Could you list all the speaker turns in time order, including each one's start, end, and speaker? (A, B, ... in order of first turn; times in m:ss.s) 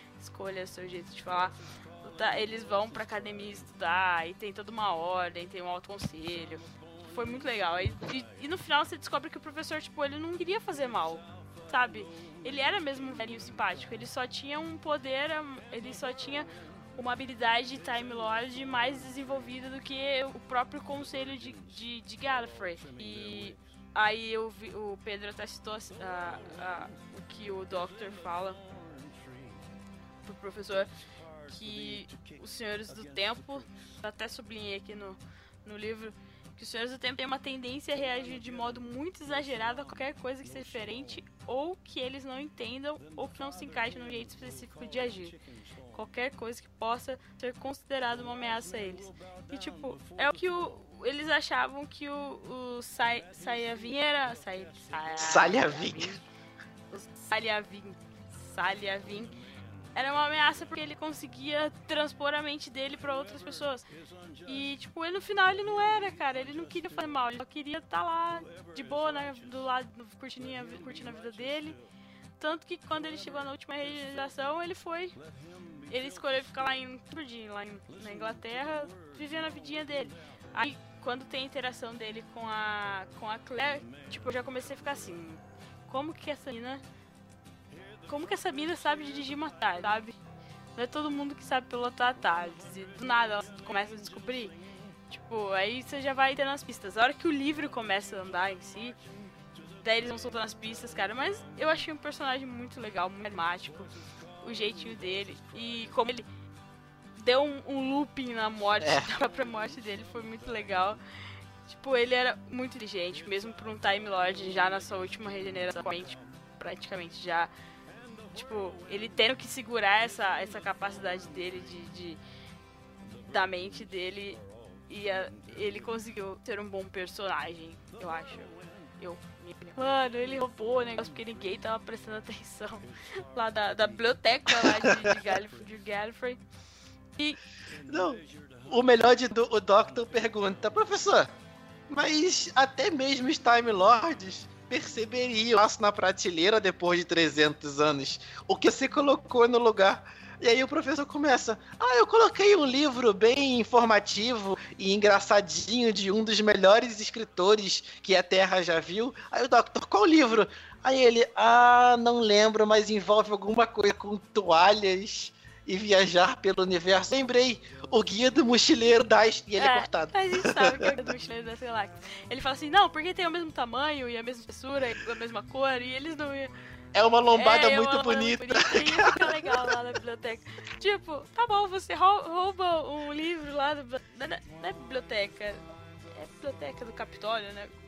0:00.2-0:28.6 A
0:30.2-0:30.9 A
0:31.4-0:45.4 A
0:45.9-0:56.2 A
0:55.2-0:56.2 B
0:56.9-0:59.3 A
0:59.9-1:03.8 A
1:04.4-1:11.8 A
1:12.4-1:15.2 A
1:15.9-1:26.8 A
1:28.0-1:30.2 A
1:30.8-1:34.6 A
1:35.1-1:39.0 A
1:39.8-1:46.3 A
1:47.2-1:51.0 A
1:48.8-1:49.0 B
1:51.7-1:57.5 A
1:58.3-2:02.2 A
2:03.1-2:16.4 A
2:14.5-2:15.1 B
2:17.9-2:21.3 B
2:21.9-2:50.9 B
2:49.6-2:56.5 A
2:56.9-2:59.7 B
2:57.3-3:05.6 A
3:06.1-3:07.7 A